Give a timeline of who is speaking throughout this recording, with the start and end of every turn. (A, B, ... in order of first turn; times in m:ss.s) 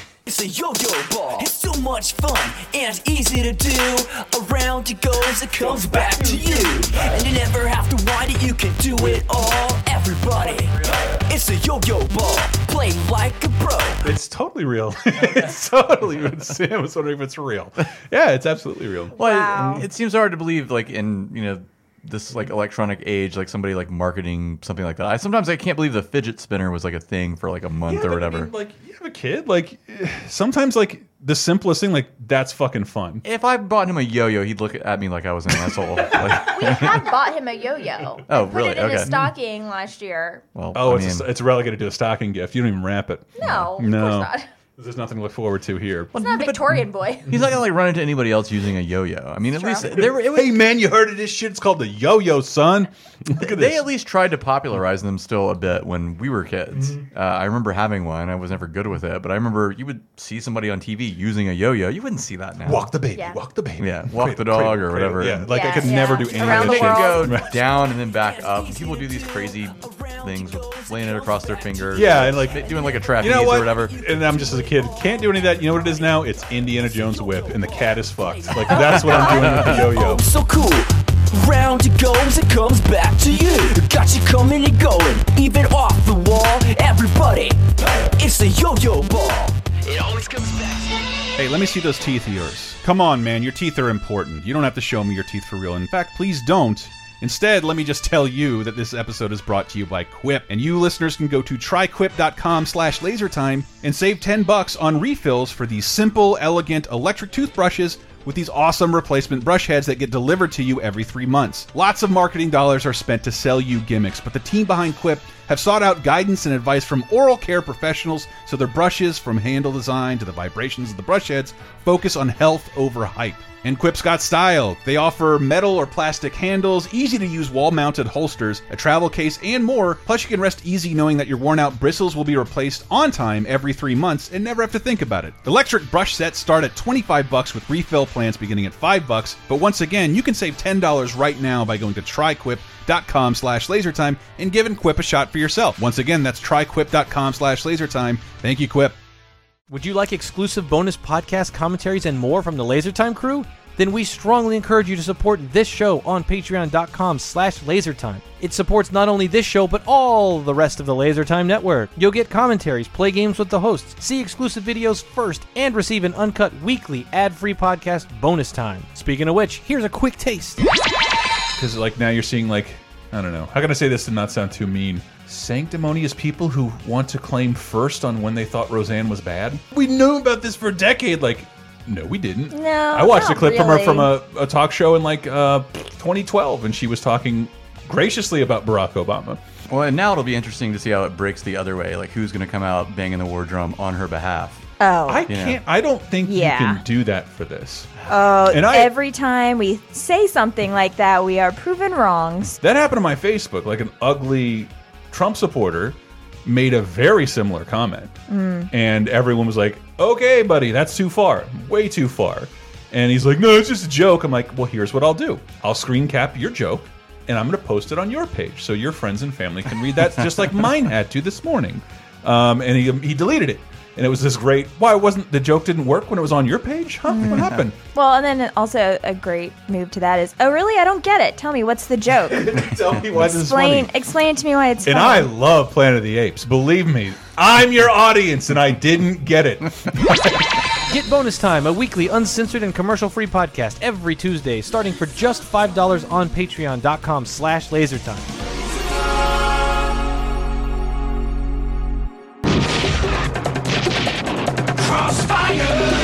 0:00.3-0:14.1 A
0:05.6-0:07.1 B
0:10.8-0:11.2 B
0:14.0-0:19.8 B
0:19.2-0:19.8 C
0:19.2-0:28.5 D
0:27.9-0:33.2 B
0:33.2-0:37.1 D
0:35.7-0:36.4 B
0:36.4-0:40.4 C
0:38.3-0:39.2 D
0:39.0-0:39.3 B
0:40.6-0:41.3 D
0:40.8-0:46.2 B
0:43.4-0:44.5 C
0:43.4-0:43.7 D
0:46.1-0:50.6 D
0:46.2-0:47.3 C
0:49.6-0:49.9 C
0:49.8-0:53.8 B
0:53.4-1:02.9 D
0:56.7-0:57.0 B
1:02.6-1:07.5 B
1:03.8-1:05.6 D
1:05.5-1:07.3 C
1:06.4-1:14.0 D
1:06.8-1:31.0 A
1:11.9-1:20.2 B
1:18.8-1:19.9 D
1:18.8-1:19.2 C
1:31.4-2:29.0 B
2:29.7-2:50.6 E
2:51.6-3:09.4 B
3:02.5-3:04.1 C
3:09.7-3:14.6 D
3:14.8-3:15.3 C
3:15.1-3:17.9 B
3:15.3-3:15.6 D
3:16.2-3:16.8 C
3:18.1-3:22.6 C
3:18.5-3:18.9 B
3:22.6-3:28.2 B
3:28.3-3:28.7 C
3:28.7-3:47.8 B
3:47.1-3:55.3 C
3:52.3-3:53.9 B
3:54.8-4:00.5 B
4:00.9-4:08.3 E